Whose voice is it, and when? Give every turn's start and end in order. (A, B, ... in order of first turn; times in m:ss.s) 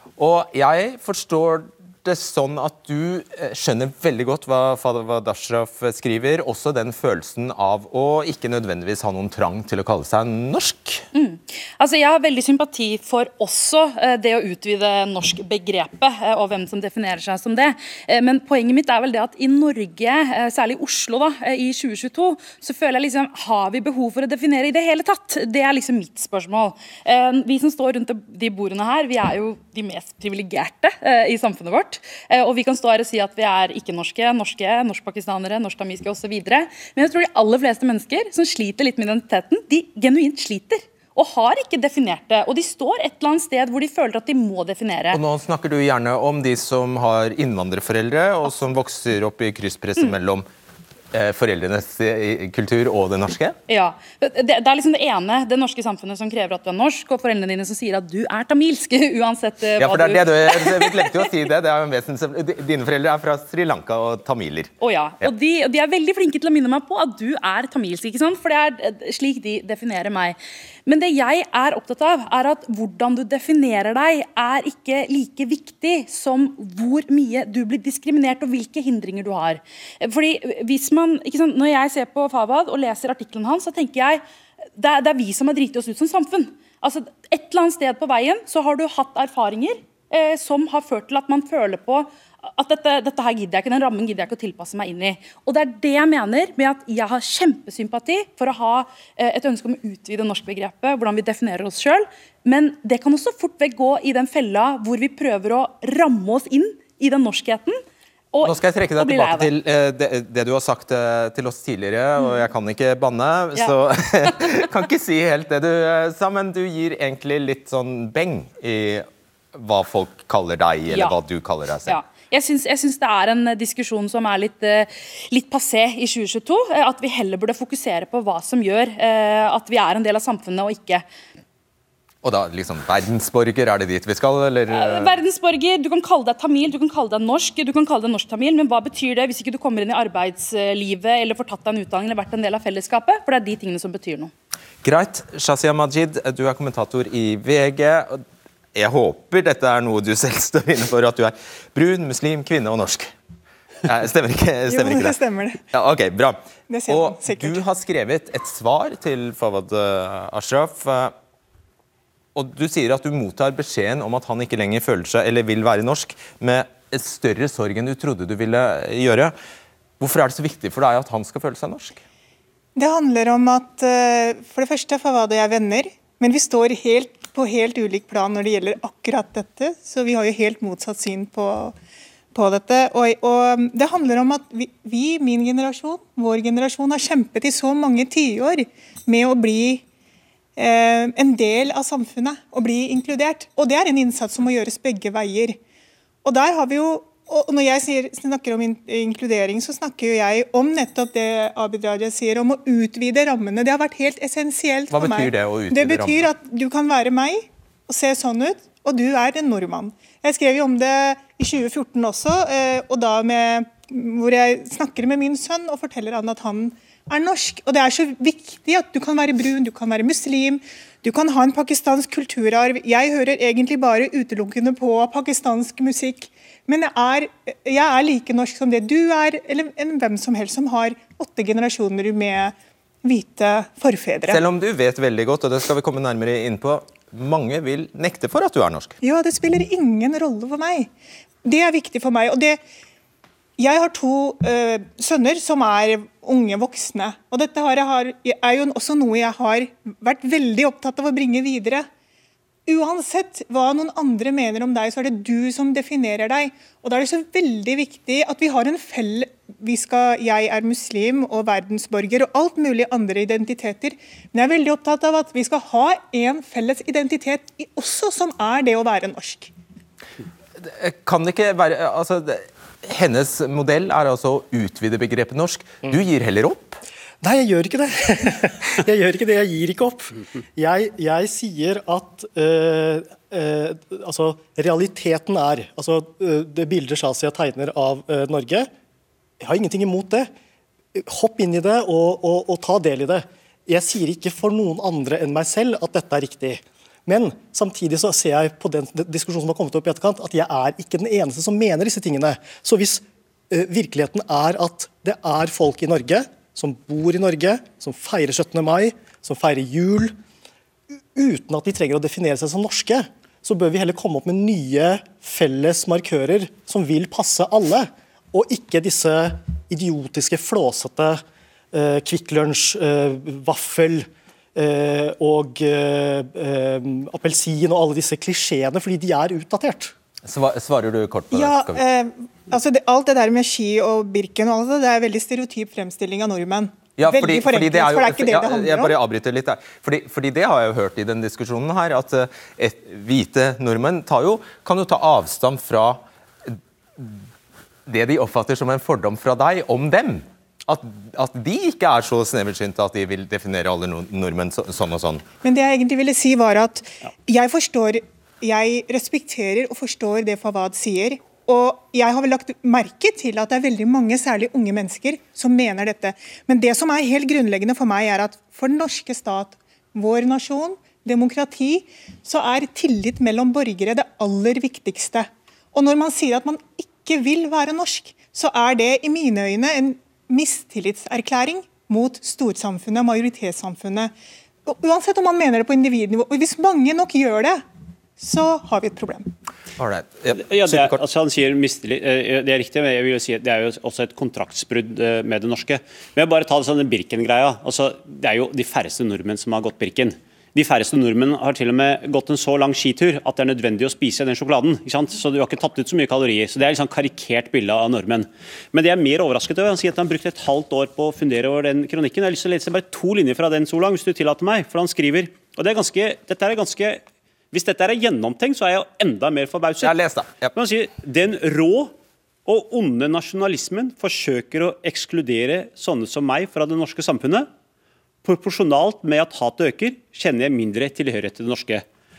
0:00.2-0:11.0 A
0:11.1-0:45.2 B
0:45.1-0:50.4 A
0:51.1-0:53.6 A
0:53.7-1:01.3 B
0:59.8-1:05.3 A
1:04.8-1:24.2 B
1:24.8-1:47.8 B
1:48.3-1:49.5 B
1:48.4-2:02.0 A
1:53.5-1:54.6 B
2:00.9-2:01.2 B
2:01.8-2:11.0 B
2:12.2-2:15.1 A
2:14.7-2:24.3 B
2:24.8-2:28.2 A
2:28.7-2:33.1 A
2:33.8-2:35.2 A
2:34.7-2:35.6 C
2:35.7-2:41.1 A
2:36.7-2:37.6 C
2:42.3-2:49.3 A
2:50.0-2:52.0 A
2:52.8-3:01.8 C
3:02.3-3:09.8 C
3:10.6-3:15.6 C
3:16.2-3:54.4 C
3:24.9-3:26.3 A
3:54.3-3:59.0 A
3:59.0-4:00.9 C
4:01.4-4:02.6 C
4:03.6-4:11.9 C
4:12.6-4:29.5 C
4:30.6-4:36.8 A
4:37.2-4:48.7 D
4:49.4-4:50.3 D
4:50.9-5:10.1 D
5:11.1-5:29.9 D
5:30.2-5:31.8 A
5:31.3-5:39.0 C
5:37.0-5:47.2 A
5:47.9-5:55.2 A
5:55.4-6:24.1 C
6:24.6-6:27.6 C
6:28.2-6:29.3 C
6:29.8-6:31.0 A
6:30.4-7:00.0 E
6:59.8-7:00.5 A
7:00.5-7:01.9 E
7:02.4-7:07.5 E
7:08.2-7:11.8 E